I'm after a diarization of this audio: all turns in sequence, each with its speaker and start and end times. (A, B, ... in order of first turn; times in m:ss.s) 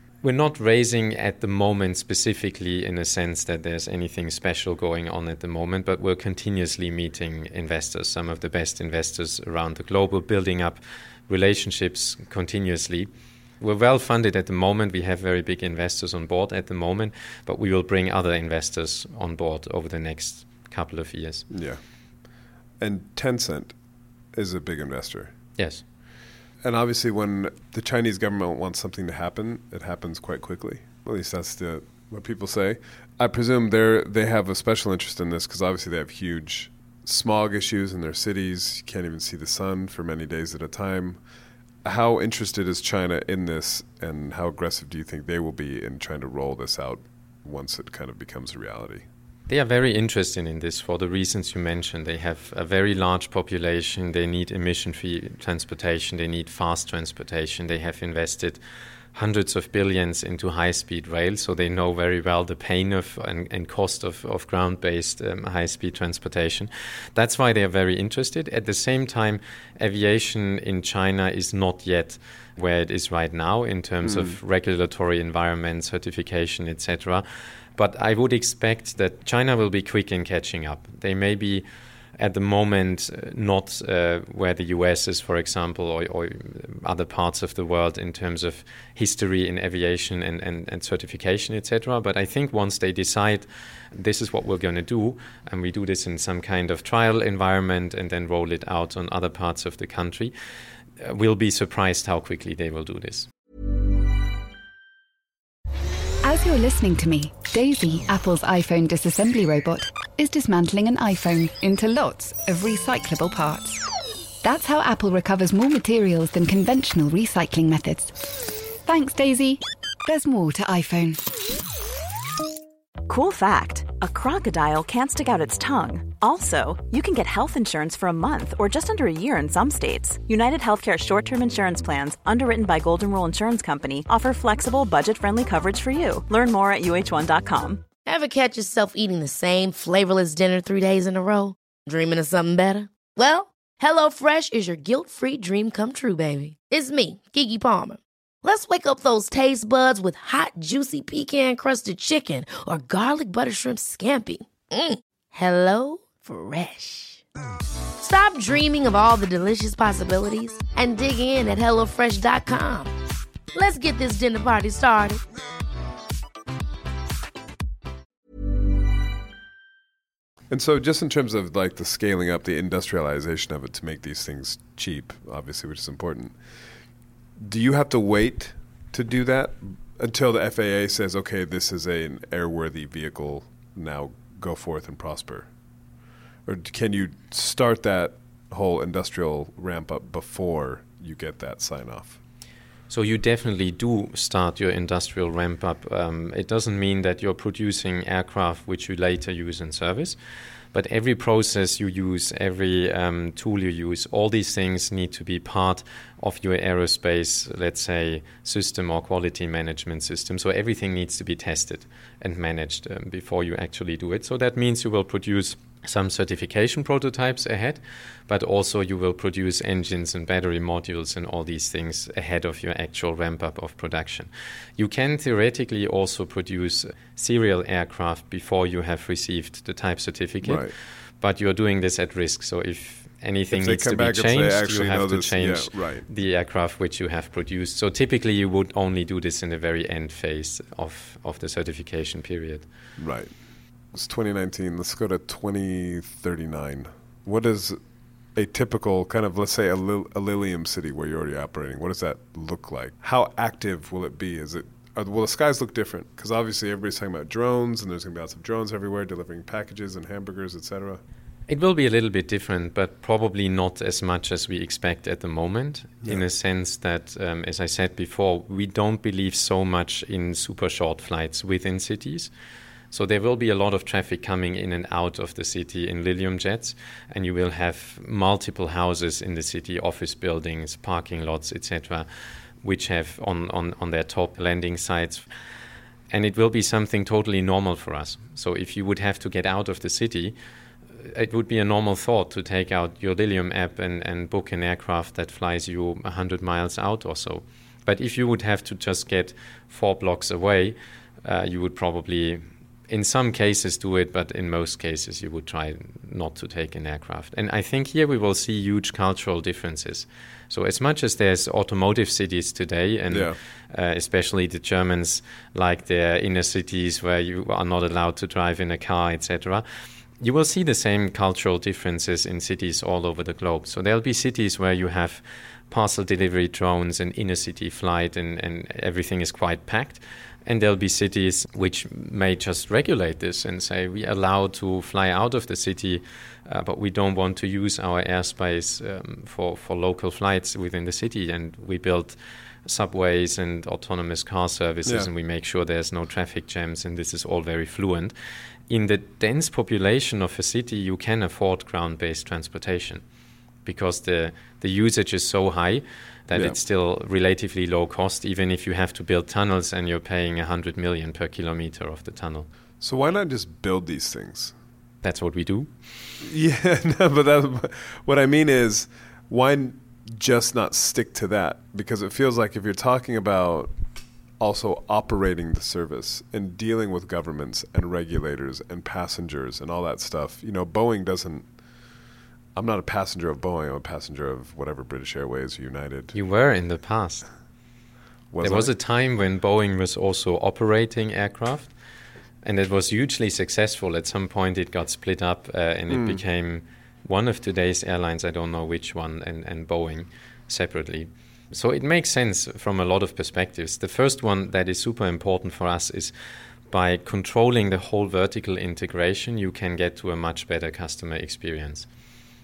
0:00.2-0:21.5 A
0:21.5-0:21.8 B
0:22.8-0:23.8 B
0:24.3-0:25.3 B
0:25.6-0:25.8 A
0:26.6-0:41.2 B
0:41.8-0:49.0 B
0:49.5-0:58.6 A
0:59.1-1:17.2 A
1:14.0-1:14.4 B
1:17.8-1:21.6 A
1:22.2-1:40.3 A
1:41.0-1:43.3 A
1:46.2-1:53.8 C
1:54.4-2:01.2 C
2:03.0-2:17.8 D
2:18.0-2:37.2 E
2:38.0-2:42.9 E
2:43.5-2:45.2 E
2:50.5-2:56.4 B
2:57.4-3:05.5 B
3:06.4-3:12.2 B
3:12.9-3:20.2 A
3:20.7-4:02.6 A
3:50.4-3:50.7 B
3:53.5-3:56.0 B
4:03.0-4:03.4 B
4:03.9-4:07.8 B
4:08.3-4:21.0 B
4:21.5-4:32.3 A
4:32.9-4:42.1 A
4:42.6-4:45.2 A
4:46.1-4:50.3 A
4:51.0-5:19.6 A
5:13.1-5:13.4 B
5:20.2-5:48.1 A
5:48.7-5:53.0 A
5:53.6-6:02.5 A
6:02.8-6:04.6 B
6:05.0-6:05.7 A
6:06.2-6:13.7 B
6:14.4-6:21.5 B
6:22.5-6:26.2 B
6:26.1-6:27.3 A
6:28.3-6:28.7 B
6:28.4-6:31.7 A
6:32.4-6:46.1 A
6:35.9-6:36.2 B
6:46.7-6:51.9 A